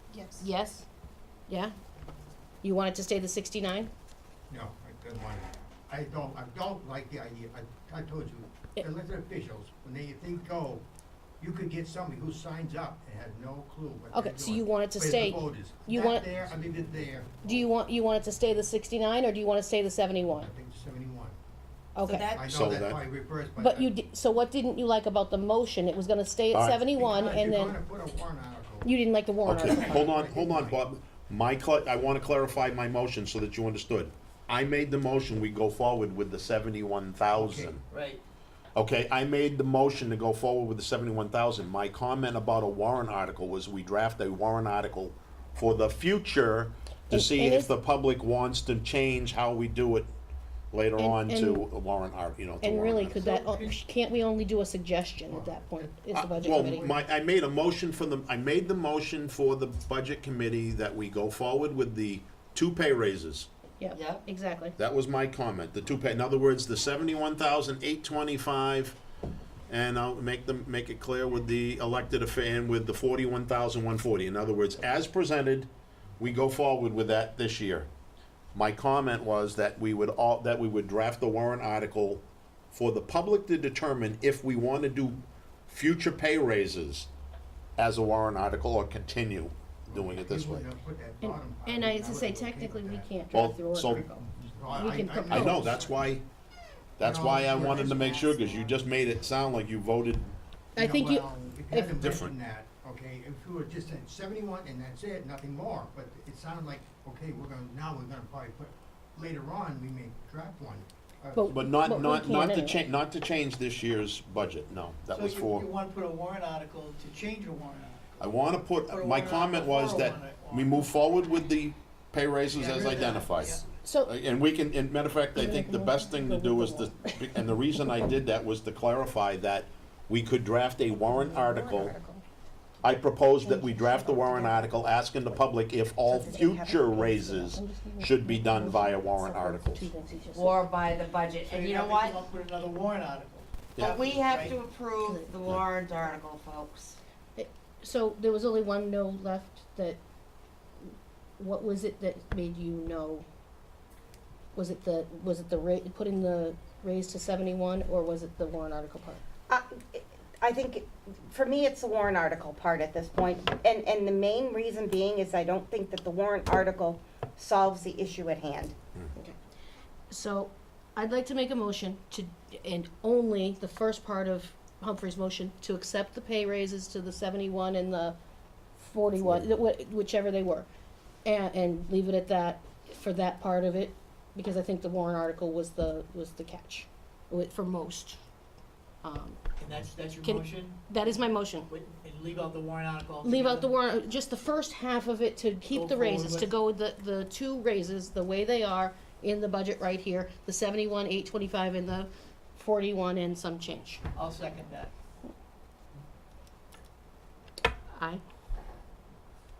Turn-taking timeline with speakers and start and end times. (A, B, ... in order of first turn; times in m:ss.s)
0:00.4-0:00.9 A
0:01.5-0:01.7 A
0:02.6-0:03.9 A
0:04.5-0:10.8 B
0:11.4-0:17.6 B
0:14.1-0:16.3 A
0:17.4-0:20.5 A
0:20.3-0:21.4 B
0:22.0-0:22.4 A
0:22.0-0:22.4 C
0:22.3-0:23.9 B
0:22.4-0:23.0 D
0:23.6-0:27.8 A
0:26.5-0:26.8 D
0:27.0-0:28.9 B
0:28.8-0:30.1 A
0:29.4-0:37.8 D
0:29.7-0:30.8 B
0:37.3-0:37.8 B
0:37.9-0:38.2 E
0:38.7-0:50.1 D
0:47.1-0:47.7 A
0:50.7-0:53.2 D
0:51.0-0:51.6 A
0:52.6-0:57.0 A
0:53.2-0:53.8 E
0:55.3-0:55.7 B
0:56.1-1:03.5 D
1:03.8-1:04.7 A
1:03.9-1:04.2 C
1:04.8-1:09.0 D
1:09.7-1:15.7 D
1:16.2-1:17.9 D
1:18.5-1:27.1 D
1:27.8-1:30.6 D
1:29.8-1:33.1 B
1:31.2-1:35.8 A
1:33.3-1:34.0 D
1:33.8-1:36.1 B
1:35.3-1:36.2 D
1:37.0-1:40.4 D
1:37.0-1:38.9 B
1:40.7-1:42.2 A
1:40.8-1:52.2 B
1:42.0-1:42.3 D
1:51.3-1:52.8 A
1:51.5-1:55.7 D
1:55.1-1:58.2 E
1:58.2-2:11.9 D
1:58.8-2:00.8 E
2:02.5-2:03.7 E
2:03.8-2:04.1 A
2:05.4-2:07.9 A
2:11.1-2:12.2 A
2:12.8-2:19.9 D
2:13.4-2:14.6 A
2:16.1-2:16.8 F
2:16.3-2:20.6 A
2:20.3-2:22.2 C
2:21.4-2:24.6 E
2:23.7-2:24.4 D
2:23.8-2:27.0 C
2:25.0-2:25.3 A
2:27.4-2:30.0 A
2:31.4-2:33.2 A
2:34.5-2:39.2 A
2:39.5-2:48.7 F
2:50.1-2:58.2 A
2:58.8-3:00.7 A
2:59.2-2:59.5 D
3:01.2-3:08.2 A
3:09.0-3:09.5 A
3:09.6-3:11.1 E
3:10.2-3:11.7 A
3:11.7-3:13.7 E
3:13.2-3:24.0 A
3:15.7-3:16.5 E
3:24.1-3:24.9 E
3:27.9-3:28.2 A